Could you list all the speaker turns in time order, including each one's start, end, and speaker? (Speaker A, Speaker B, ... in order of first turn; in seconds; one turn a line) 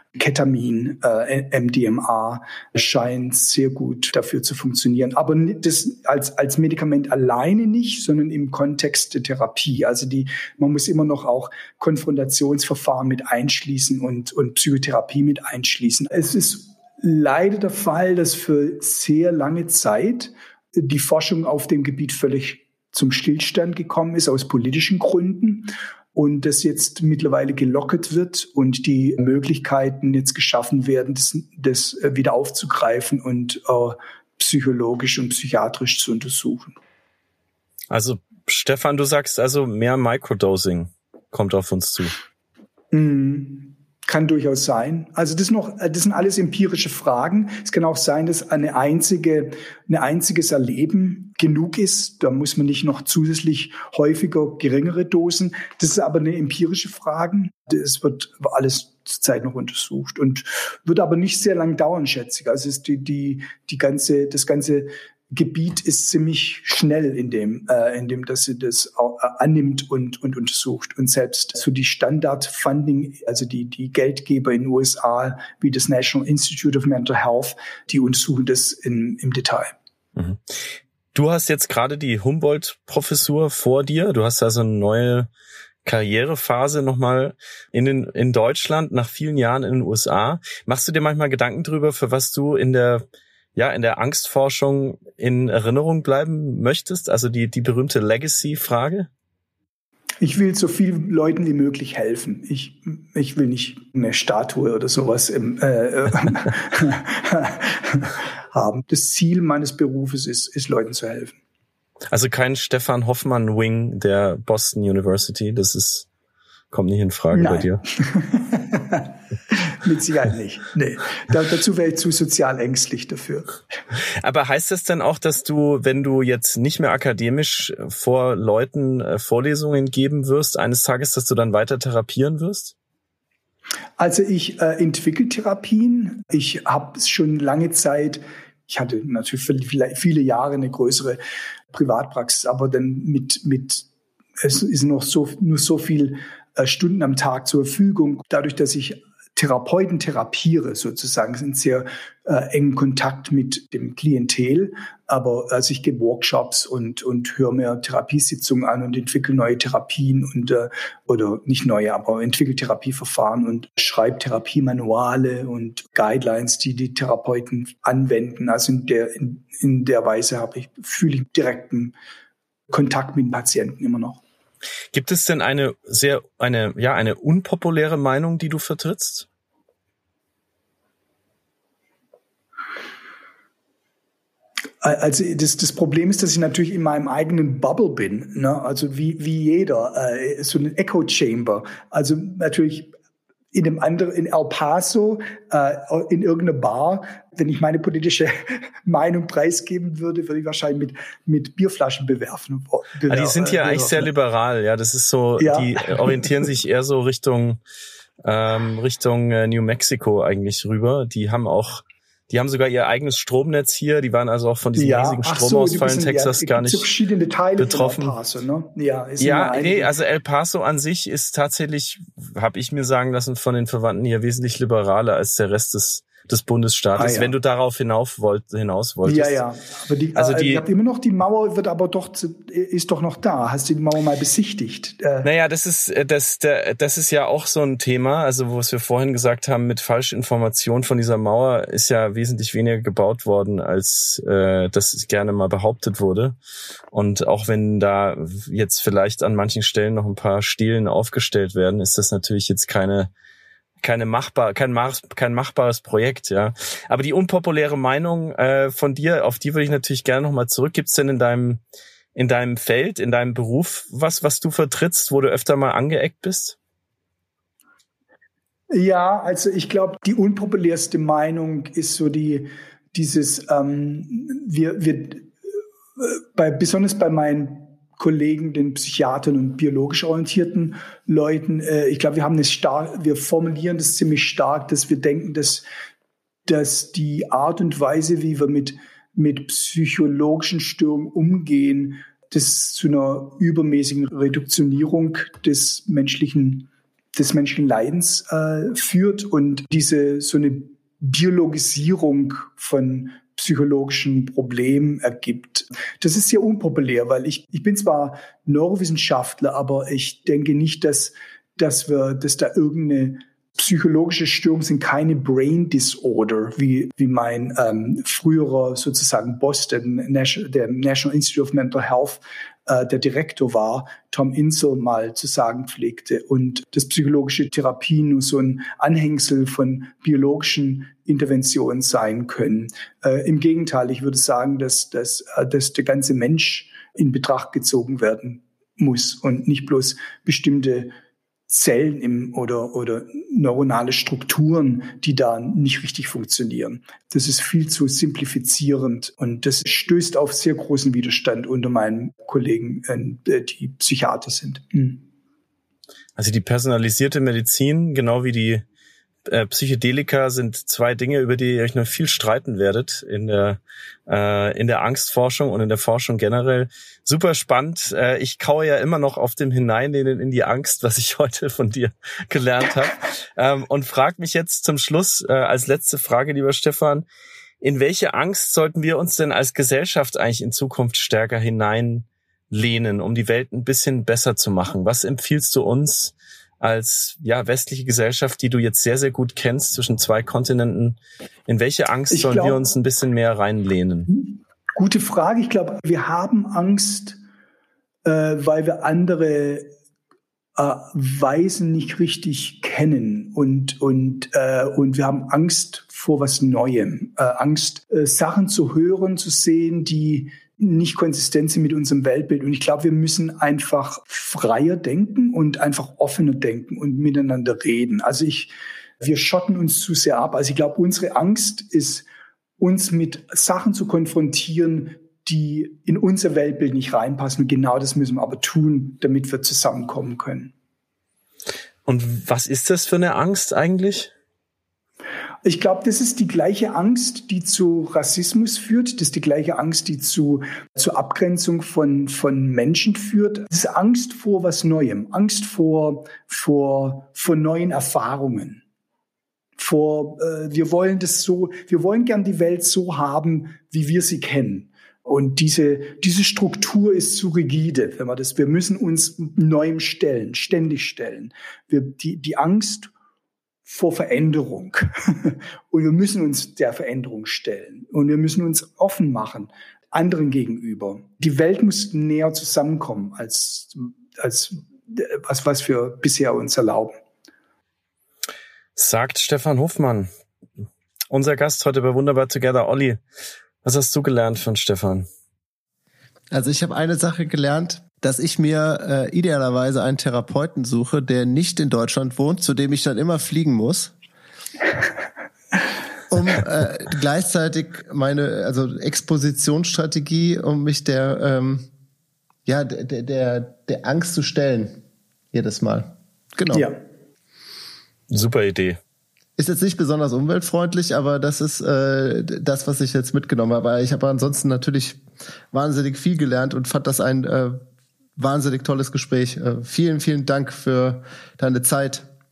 Speaker A: 0.1-36.8
Speaker B: 37.9-42.2
Speaker A: 42.9-79.8
Speaker B: 80.2-80.4
Speaker B: 81.2-85.3
Speaker B: 85.8-93.0
Speaker B: 93.6-99.1
Speaker A: 100.2-111.4
Speaker B: 112.1-116.1
Speaker B: 116.7-117.8
Speaker A: 117.3-123.5
Speaker B: 124.2-132.7
Speaker A: 134.0-141.2
Speaker A: 141.7-143.9
Speaker A: 144.4-171.9
Speaker A: 172.7-174.2
Speaker B: 174.9-179.3
Speaker A: 184.8-192.9
Speaker A: 193.5-204.1
Speaker B: 203.1-207.6
Speaker A: 205.4-206.4
Speaker B: 208.2-216.9
Speaker A: 214.8-219.9
Speaker B: 217.6-218.2
Speaker B: 219.2-229.4
Speaker A: 227.0-227.3
Speaker A: 229.0-235.3
Speaker B: 230.2-230.7
Speaker B: 235.2-246.4
Speaker B: 246.9-253.1
Speaker B: 253.8-261.6
Speaker B: 262.1-266.6
Speaker A: 268.7-275.3
Speaker A: 276.0-285.6
Speaker A: 286.5-340.9
Speaker A: 341.5-355.1
Speaker B: 356.2-358.6
Speaker B: 359.3-377.1
Speaker B: 377.6-394.1
Speaker A: 392.1-392.6
Speaker A: 394.1-397.2
Speaker A: 398.1-399.7
Speaker A: 400.6-422.1
Speaker A: 422.6-430.5
Speaker B: 431.9-434.1
Speaker A: 435.4-448.6
Speaker A: 449.6-462.9
Speaker A: 463.7-477.0
Speaker B: 478.8-480.1
Speaker B: 481.1-483.0
Speaker B: 483.6-485.1
Speaker C: 486.3-493.9
Speaker C: 496.1-501.7
Speaker C: 502.5-504.8
Speaker C: 505.3-506.7
Speaker A: 506.5-506.8
Speaker B: 508.1-508.8
Speaker C: 509.4-515.0
Speaker C: 515.5-517.6
Speaker C: 518.2-522.1